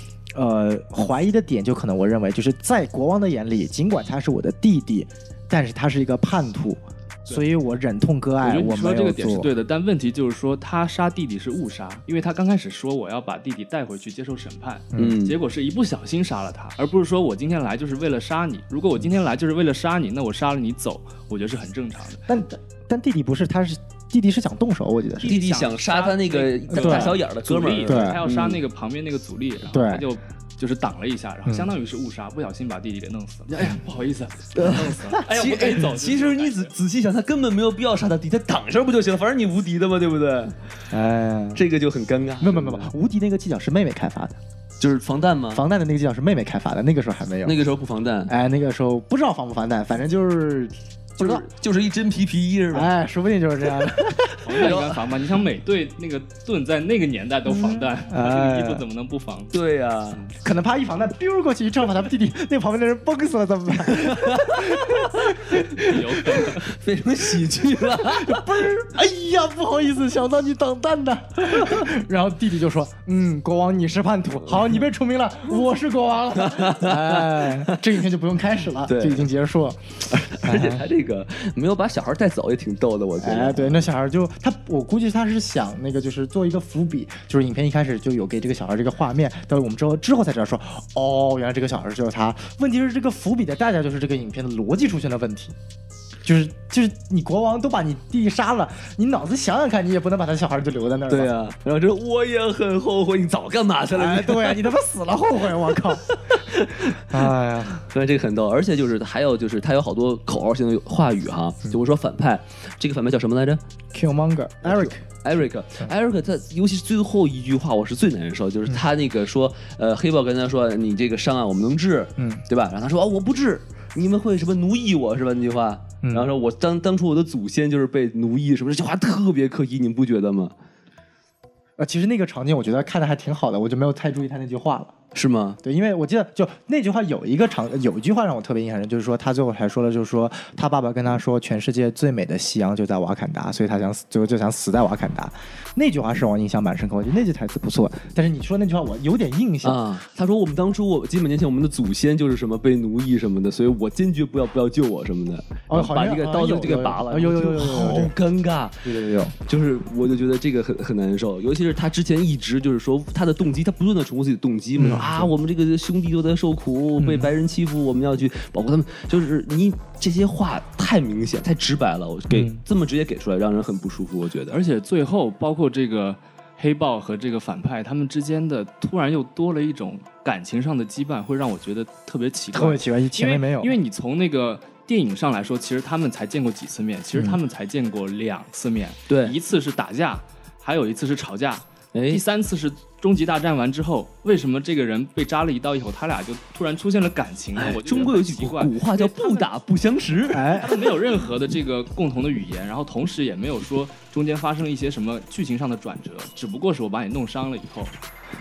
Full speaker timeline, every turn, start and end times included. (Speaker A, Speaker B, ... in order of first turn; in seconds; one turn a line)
Speaker A: 0.3-9.5
Speaker B: 8.4-22.2
Speaker C: 15.0-15.3
Speaker A: 22.3-25.3
Speaker B: 25.2-36.7
Speaker C: 25.2-28.6
Speaker A: 26.7-27.1
Speaker A: 27.9-28.2
Speaker A: 29.7-30.1
Speaker A: 31.4-31.7
Speaker C: 34.5-40.6
Speaker A: 40.9-41.6
Speaker C: 41.5-42.9
Speaker A: 42.4-44.3
Speaker C: 44.8-45.6
Speaker A: 45.5-47.5
Speaker C: 47.4-48.3
Speaker A: 48.3-51.4
Speaker C: 51.2-52.9
Speaker A: 52.7-54.8
Speaker B: 54.4-59.5
Speaker C: 54.5-55.0
Speaker A: 57.5-58.8
Speaker C: 59.5-60.2
Speaker A: 60.4-66.5
Speaker C: 63.9-65.2
Speaker B: 65.8-66.7
Speaker C: 66.6-68.5
Speaker A: 67.6-80.8
Speaker C: 76.4-77.8
Speaker C: 78.8-79.3
Speaker C: 80.1-83.9
Speaker A: 83.2-95.5
Speaker A: 96.2-101.3
Speaker C: 101.1-104.7
Speaker A: 103.9-106.0
Speaker C: 106.3-107.0
Speaker A: 107.0-107.8
Speaker C: 107.8-113.6
Speaker A: 113.9-115.0
Speaker C: 114.6-130.5
Speaker A: 122.2-122.4
Speaker A: 126.0-126.3
Speaker A: 131.8-134.9
Speaker C: 135.1-135.6
Speaker A: 135.6-149.8
Speaker C: 149.6-174.6
Speaker A: 155.7-158.1
Speaker A: 158.8-159.3
Speaker A: 164.8-165.3
Speaker A: 167.0-167.3
Speaker A: 172.3-172.6
Speaker B: 174.5-199.5
Speaker A: 182.5-183.7
Speaker C: 189.1-189.3
Speaker C: 191.9-192.2
Speaker C: 197.6-200.5
Speaker A: 200.3-200.8
Speaker B: 200.5-207.9